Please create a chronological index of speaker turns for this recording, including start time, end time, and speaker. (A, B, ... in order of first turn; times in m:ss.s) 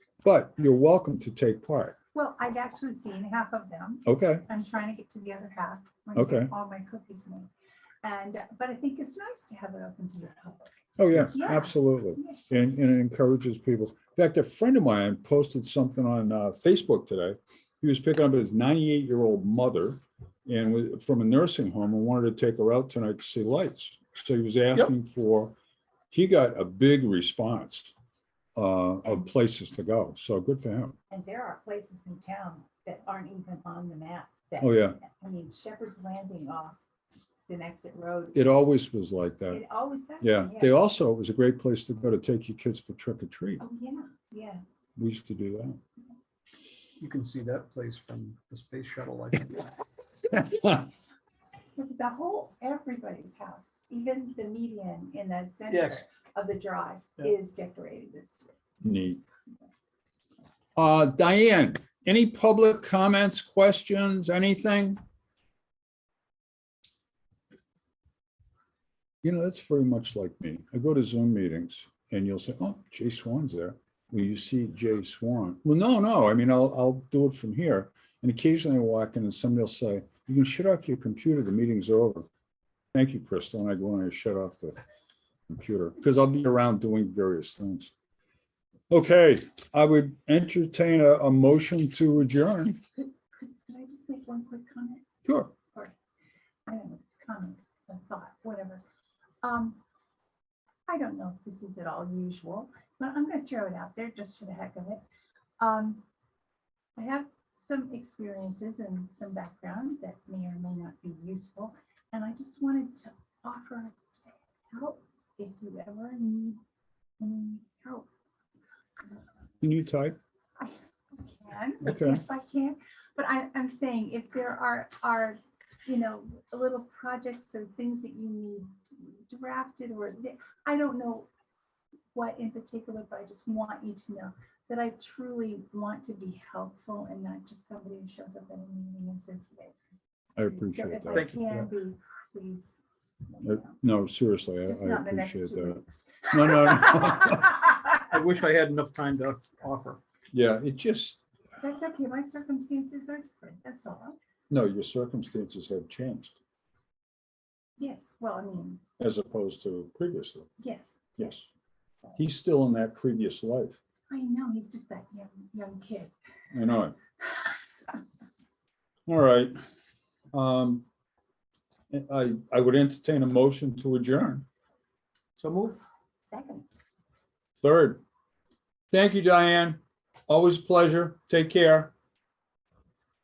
0:00.2-0:02.0 A
0:02.1-0:07.5 B
0:04.1-0:04.4 A
0:06.2-0:06.5 A
0:08.0-0:12.5 B
0:11.0-0:25.6 A
0:26.1-0:27.9 A
0:28.6-0:31.0 A
0:31.1-0:38.5 B
0:34.6-0:35.0 A
0:38.4-0:39.6 A
0:39.5-0:40.8 B
0:40.2-0:43.6 A
0:43.6-0:44.6 B
0:45.0-0:45.8 A
0:47.0-0:49.7 C
0:50.3-0:50.9 B
0:50.4-0:50.7 A
0:51.6-0:58.5 B
0:55.7-0:56.0 C
0:58.8-0:59.2 A
1:00.8-1:05.0 A
1:09.2-1:22.3 A
1:22.9-1:24.8 A
1:25.5-1:27.9 A
1:28.9-1:32.8 A
1:33.0-1:35.1 B
1:35.3-1:35.5 A
1:36.7-1:38.8 B
1:39.4-1:39.8 B
1:40.9-1:45.0 B
1:45.6-1:46.0 B
1:47.0-1:56.6 B
1:57.2-1:58.1 B
1:59.6-2:00.2 A
2:00.6-2:11.3 B
2:01.8-2:02.2 A
2:12.1-2:19.8 B
2:20.4-2:21.3 A
2:20.5-2:22.8 B
2:21.1-2:21.7 C
2:23.4-2:23.8 B
2:23.4-2:27.6 A
2:24.6-2:27.6 B
2:28.1-2:30.0 C
2:30.3-2:31.2 A
2:31.6-2:34.2 B
2:34.5-2:36.3 A
2:37.8-2:38.8 B
2:39.0-2:40.5 A
2:40.6-2:41.0 B
2:41.2-2:41.5 A
2:42.2-2:43.8 A
2:44.1-2:46.1 B
2:46.5-2:47.0 A
2:49.1-2:49.6 A
2:50.3-2:50.8 A
2:51.9-2:54.4 A
2:55.4-2:55.8 C
2:56.3-2:56.7 B
2:57.6-2:58.0 A
2:58.9-3:01.9 A